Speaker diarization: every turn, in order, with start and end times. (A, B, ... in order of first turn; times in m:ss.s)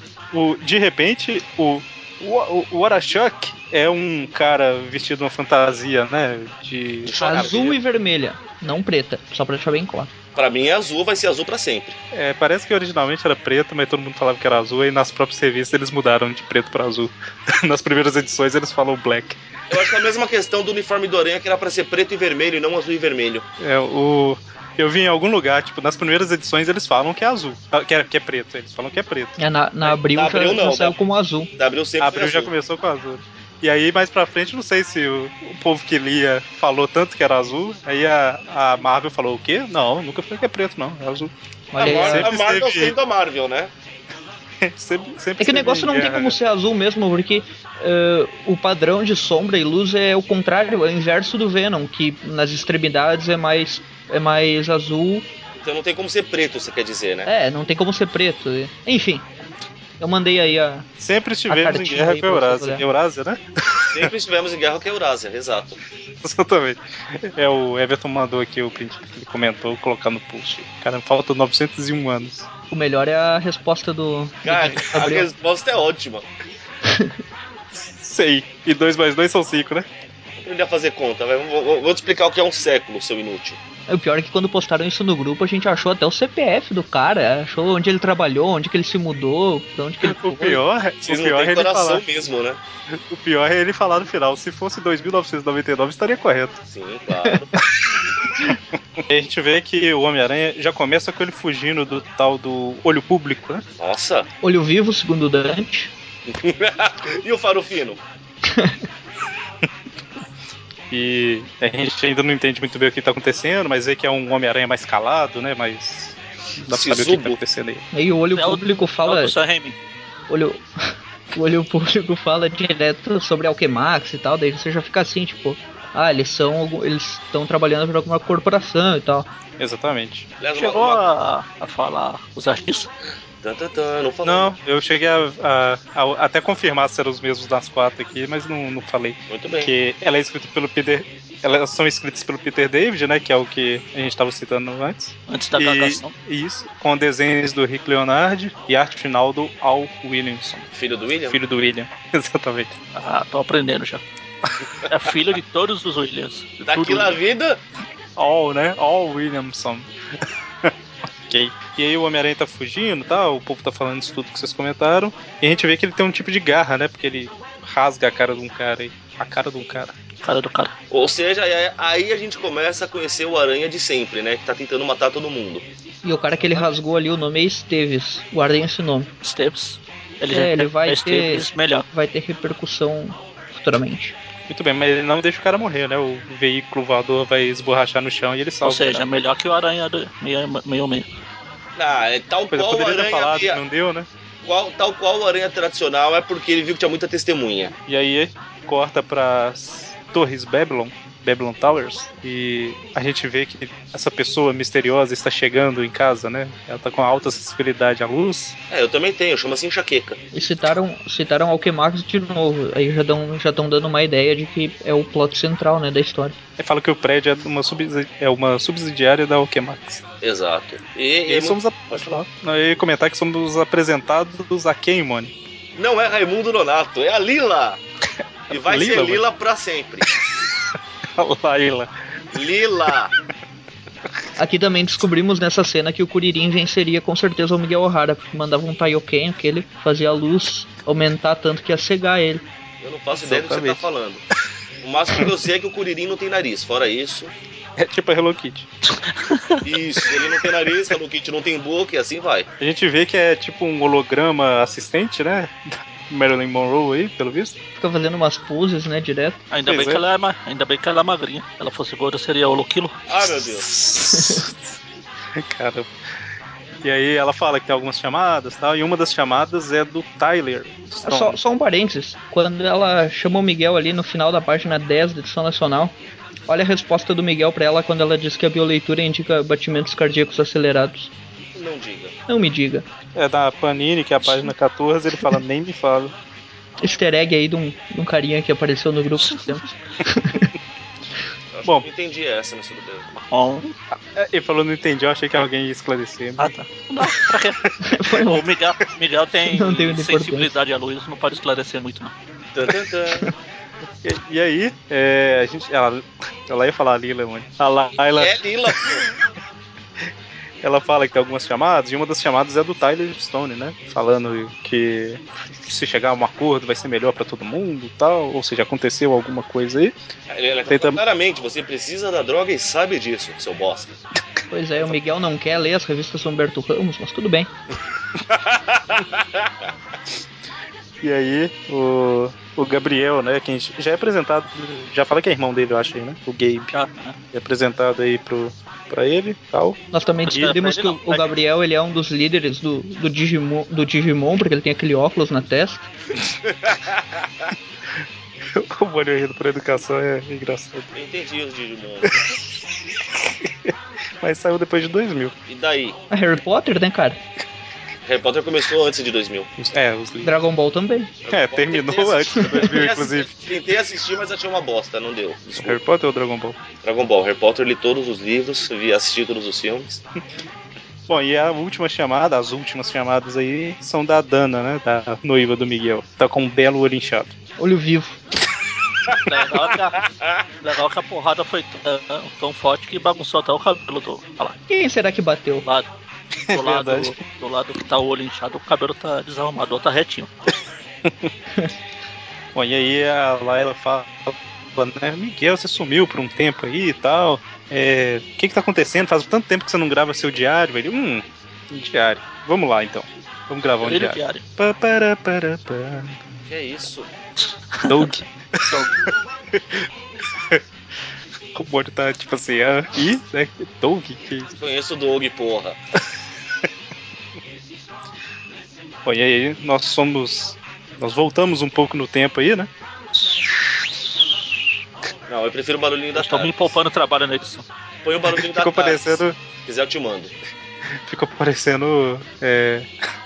0:00.3-0:07.8 A
0:07.0-0:07.7 B
0:07.2-0:10.1 C
0:10.4-0:12.0 B
0:12.1-0:19.4 A
0:19.7-0:23.4 B
0:23.6-0:29.4 A
0:29.4-0:31.5 C
0:29.9-0:31.0 B
0:31.6-0:32.5 B
0:32.0-0:43.0 A
0:41.7-0:42.3 C
0:41.8-0:43.7 B
0:44.6-0:46.4 A
0:45.4-0:55.3 C
0:55.6-0:57.3 B
0:57.3-0:59.3 C
1:00.0-1:00.9 C
1:01.0-1:04.1 A
1:01.5-1:02.8 C
1:03.9-1:05.8 B
1:06.2-1:12.5 A
1:12.7-1:15.3 C
1:14.4-1:16.3 B
1:16.8-1:17.2 C
1:17.7-1:19.9 A
1:20.4-1:23.6 B
1:23.9-1:30.6 C
1:30.0-1:32.0 A
1:31.0-1:32.6 B
1:32.9-1:36.6 A
1:36.7-1:37.5 B
1:38.4-1:43.6 A
1:43.8-1:44.3 B
1:44.4-1:45.9 C
1:46.3-1:48.0 B
1:48.5-1:48.8 C
1:50.9-1:57.8 A
1:56.7-1:57.4 B
1:57.9-1:59.3 C
1:58.4-1:59.8 D
2:00.3-2:00.7 C
2:01.3-2:09.3 C
2:09.6-2:10.3 A
2:10.4-2:11.1 B
2:10.5-2:12.9 D
2:13.4-2:14.5 B
2:14.2-2:30.7 A
2:19.3-2:19.7 B
2:25.3-2:26.1 D
2:30.8-2:31.4 B
2:31.3-2:32.8 A
2:32.9-2:34.0 D
2:34.9-2:37.2 D
2:36.7-2:37.6 B
2:38.2-2:39.9 A
2:40.6-2:50.0 A
2:50.2-2:50.7 D
2:50.9-2:55.7 B
2:56.0-2:59.1 C
2:59.2-3:01.9 D
3:00.3-3:04.2 C
3:04.5-3:09.0 A
3:08.6-3:11.1 D
3:11.8-3:13.6 B
3:12.5-3:14.1 A
3:14.4-3:17.7 B
3:17.9-3:28.6 A
3:28.7-3:30.2 B
3:30.3-3:36.4 C
3:36.6-3:40.0 A
3:40.2-3:42.2 B
3:41.3-3:45.3 A
3:45.8-3:47.8 B
3:48.5-3:49.2 A
3:48.5-3:50.1 B
3:51.2-3:51.9 A
3:52.3-3:53.1 B
3:54.4-4:02.4 C
4:02.8-4:04.2 B
4:03.1-4:03.8 A
4:04.8-4:07.3 B
4:07.8-4:08.7 A
4:09.0-4:09.6 D
4:09.6-4:12.5 B
4:12.6-4:17.6 A
4:17.8-4:19.4 C
4:19.5-4:23.0 D
4:19.7-4:20.0 A
4:23.1-4:23.7 B
4:23.3-4:24.8 A
4:24.1-4:24.5 C
4:25.4-4:25.9 A
4:26.8-4:31.4 A
4:31.0-4:36.0 C
4:36.5-4:41.1 C
4:41.6-4:42.1 B
4:42.3-4:42.8 C
4:43.2-4:46.1 A
4:46.8-4:50.5 C
4:51.5-4:53.1 B
4:53.2-4:53.7 D
4:53.9-4:56.5 A
4:56.4-5:02.1 D
4:57.8-4:58.4 C
4:59.5-5:00.5 C
5:02.6-5:03.3 B
5:04.0-5:09.0 A
5:08.2-5:09.1 B
5:10.6-5:19.9 A
5:20.3-5:24.0 B
5:20.7-5:21.0 A
5:24.5-5:27.5 C
5:28.3-5:29.5 B
5:31.0-5:36.7 A
5:36.7-5:37.2 D
5:37.3-5:39.8 A
5:39.9-5:45.9 C
5:40.3-5:41.4 D
5:46.5-5:47.5 B
5:48.5-5:50.9 A
5:50.9-5:52.2 B
5:53.1-5:55.3 A
5:55.5-5:56.0 B
5:56.1-5:57.2 C
5:58.0-5:59.5 B
5:59.6-6:00.3 A
6:00.2-6:01.1 C
6:01.3-6:05.8 B
6:01.3-6:03.3 A
6:05.6-6:06.6 A
6:06.8-6:10.0 B
6:11.1-6:17.3 A
6:17.6-6:18.2 C
6:19.2-6:20.0 D
6:20.6-6:24.6 D
6:24.7-6:25.6 C
6:26.5-6:27.1 A
6:26.5-6:30.3 D
6:31.0-6:31.3 A
6:32.6-6:46.4 A
6:43.8-6:44.4 D
6:46.5-6:47.1 B
6:47.7-6:48.1 D
6:47.9-6:48.8 A
6:49.5-6:49.9 A
6:51.5-6:54.5 A
6:54.6-6:55.8 B
6:59.0-7:03.4 A
7:05.3-7:06.8 B
7:06.2-7:07.7 D
7:08.0-7:10.3 B
7:08.3-7:09.4 A
7:11.0-7:12.9 A